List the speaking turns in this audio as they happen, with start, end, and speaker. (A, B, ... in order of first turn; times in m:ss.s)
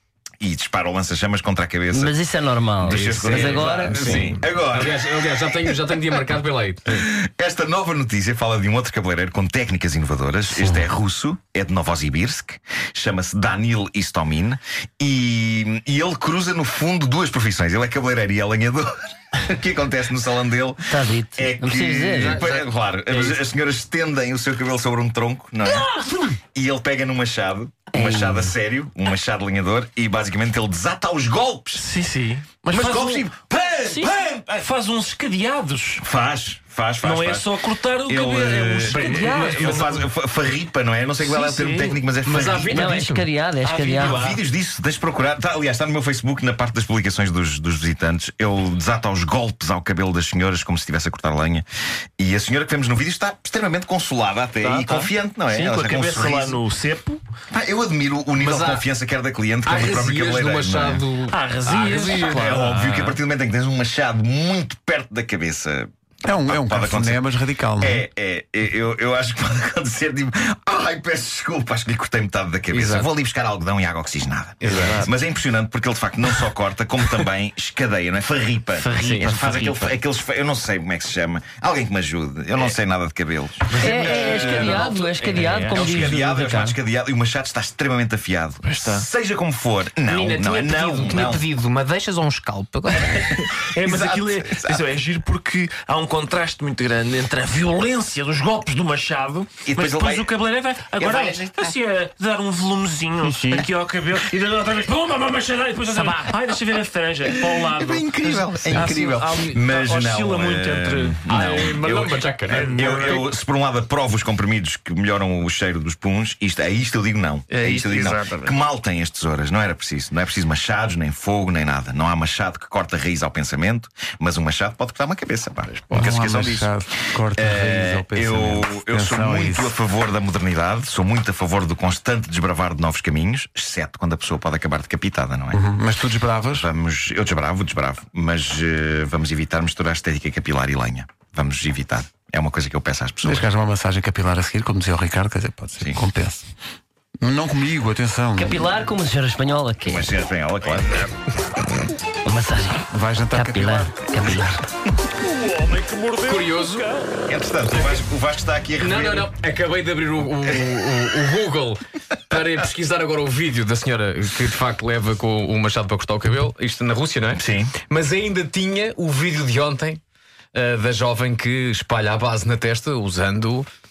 0:00.4-0:02.2 A
0:01.9-0:04.3 B
0:02.8-0:06.3 A
0:03.2-0:07.0 C
0:06.9-0:31.9 A
0:10.5-0:10.9 B
0:20.9-0:22.4 B
0:22.2-0:23.4 C
0:25.8-0:26.2 D
0:27.9-0:28.5 B
0:31.8-0:33.2 D
0:32.7-0:34.7 A
0:33.9-0:36.0 D
0:36.0-0:42.9 A
0:37.0-0:40.0 D
0:39.0-0:39.6 C
0:41.2-0:42.0 D
0:42.2-0:44.4 C
0:42.7-0:44.2 B
0:44.0-0:51.6 A
0:52.2-0:56.6 A
0:54.6-0:57.2 D
0:57.5-1:01.0 A
0:58.3-0:58.8 C
0:59.6-1:02.6 C
1:01.3-1:03.2 D
1:02.2-1:07.3 A
1:06.2-1:08.0 E
1:07.8-1:24.9 A
1:12.7-1:13.1 C
1:14.6-1:15.1 D
1:14.7-1:15.1 E
1:18.8-1:19.9 D
1:19.0-1:19.4 C
1:23.7-1:24.9 D
1:23.7-1:26.8 B
1:23.8-1:25.7 C
1:25.4-1:26.0 D
1:25.6-1:31.4 A
1:28.6-1:29.1 D
1:30.1-1:31.4 C
1:31.2-1:53.3 D
1:32.9-1:34.9 A
1:39.7-1:40.3 A
1:40.9-1:41.8 A
1:43.2-1:43.7 E
1:47.2-1:51.9 A
1:51.3-1:52.7 C
1:52.6-2:06.7 A
1:57.5-1:58.6 D
2:05.8-2:09.7 E
2:07.4-2:15.6 A
2:15.5-2:16.7 E
2:16.4-2:23.5 A
2:23.2-2:26.4 E
2:25.8-2:26.0 A
2:27.2-2:28.6 E
2:28.4-2:30.1 B
2:29.8-2:31.1 A
2:32.2-2:34.6 B
2:32.9-2:33.9 E
2:35.2-2:37.1 D
2:36.2-2:36.9 C
2:37.2-2:39.3 A
2:38.8-2:50.0 C
2:47.4-2:47.8 A
2:50.5-2:53.7 C